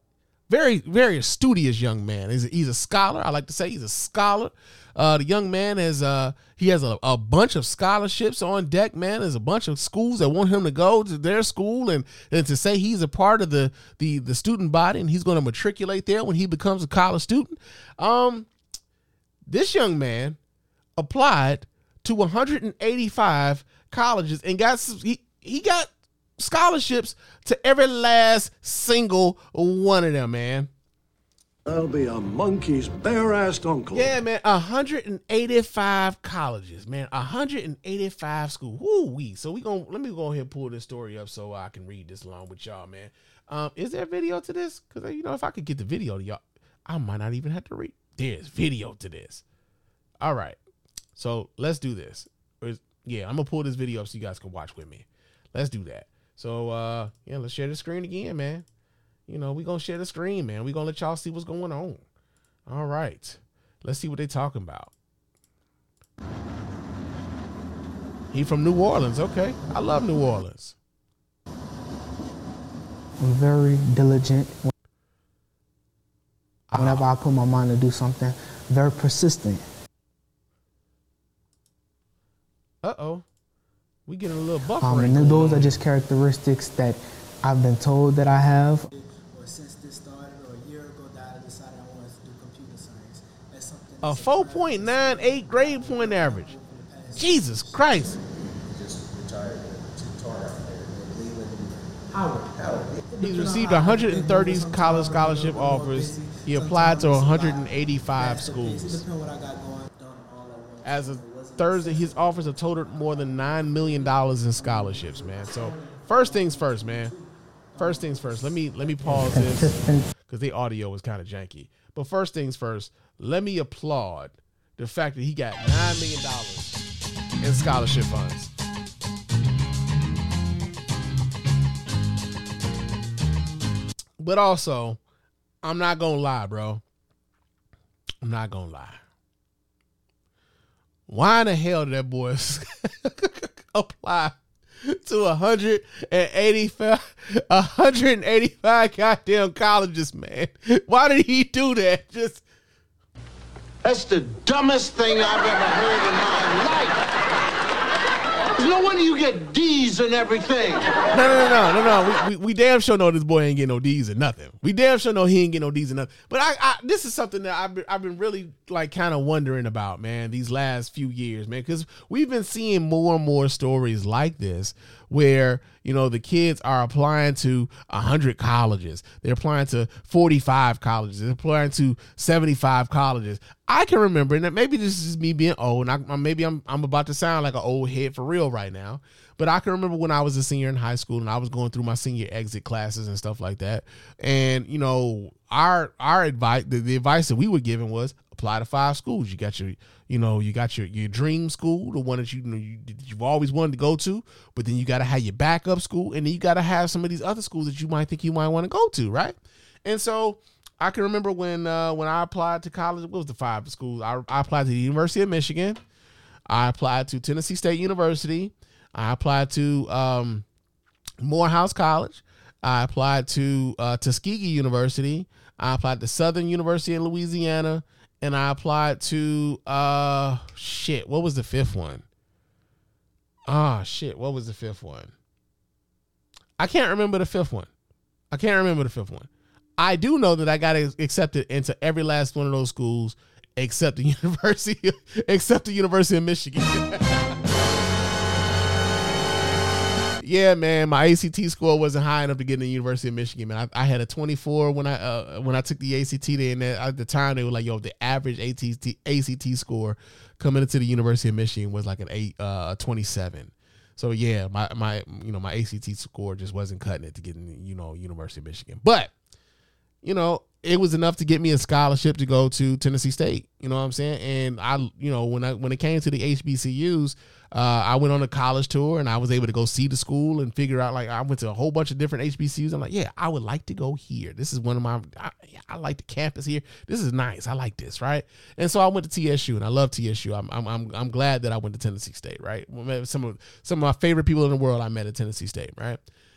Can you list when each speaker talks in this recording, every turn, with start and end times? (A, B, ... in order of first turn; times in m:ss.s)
0:00.5-0:18.5 A
0:19.5-0:20.4 A
0:21.0-0:30.7 A
0:31.6-0:34.2 B
0:33.9-0:49.4 A
0:50.2-0:50.6 A
0:51.2-0:58.6 A
0:59.3-1:02.0 A
1:02.7-1:04.9 A
1:08.3-1:10.8 A
1:13.2-1:14.7 C
1:16.7-1:17.1 A
1:16.7-1:19.6 C
1:22.8-1:23.2 A
1:24.1-1:25.8 A
1:24.8-1:28.9 C
1:28.9-1:38.2 D
1:34.0-1:36.5 A
1:37.2-1:38.2 A
1:42.1-1:59.1 D
1:43.2-1:49.0 A
1:50.8-1:57.1 A
1:57.8-2:06.8 A
1:59.0-2:00.1 C
2:07.4-2:08.5 A
2:14.2-2:15.0 A
2:15.6-2:16.8 A
2:18.2-2:19.0 A
2:21.1-2:24.4 A
2:24.9-2:32.4 A
2:33.8-2:37.1 E
2:38.6-2:41.0 E
2:41.1-3:35.8 A
3:36.5-3:40.4 A
3:41.2-3:52.0 A
3:53.5-3:55.1 A
3:56.6-3:57.7 A
3:58.3-4:07.2 A
4:10.2-4:29.1 A
4:30.0-4:56.0 A